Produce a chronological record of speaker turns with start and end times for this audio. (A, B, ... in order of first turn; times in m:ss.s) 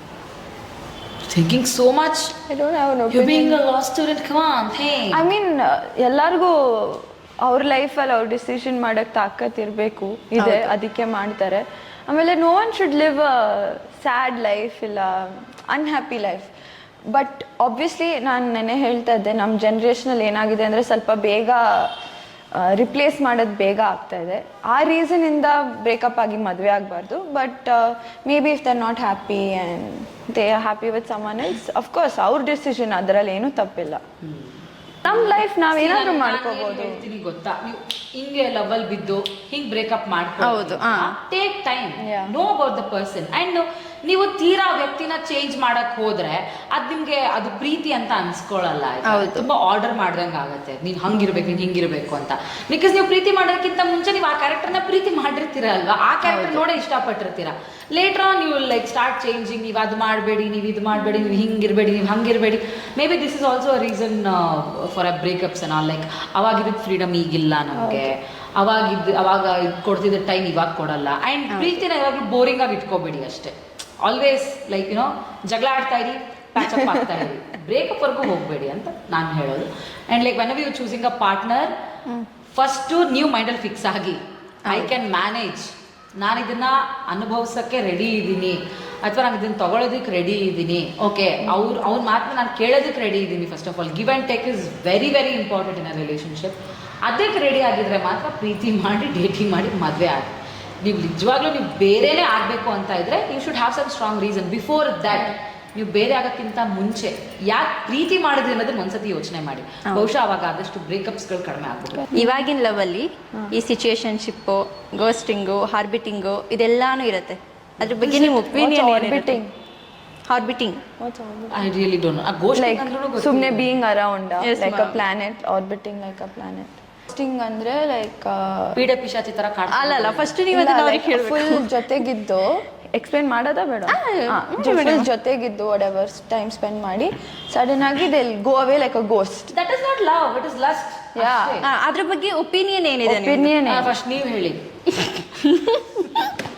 0:01.3-0:02.3 A
0:02.5-0:03.6 B
0:03.1-0:05.2 A
0:05.1-0:16.5 B
0:10.4-0:10.7 C
0:17.1-0:21.9 B
0:22.6-0:34.0 B
0:34.2-1:21.7 A
0:35.0-0:37.0 B
0:40.4-0:41.2 C
0:42.0-0:42.4 B
0:49.0-0:49.5 C
0:56.2-0:56.6 C
1:00.9-1:01.4 B
1:07.7-1:08.1 B
1:11.5-1:11.8 C
1:16.7-1:17.0 B
1:22.5-1:52.0 A
1:24.6-1:24.9 C
1:51.9-1:52.3 B
1:52.1-1:59.4 C
1:58.0-1:59.5 B
2:00.3-2:00.8 C
2:01.0-2:01.7 B
2:01.5-2:03.6 A
2:02.5-2:08.8 B
2:04.4-2:05.0 C
2:08.8-2:10.3 A
2:09.7-2:11.7 C
2:10.5-2:19.5 B
2:13.9-2:15.1 C
2:19.5-2:21.6 A
2:21.2-2:21.6 B
2:21.6-2:23.6 C
2:23.0-2:24.0 B
2:23.6-2:24.7 A
2:25.6-2:25.8 C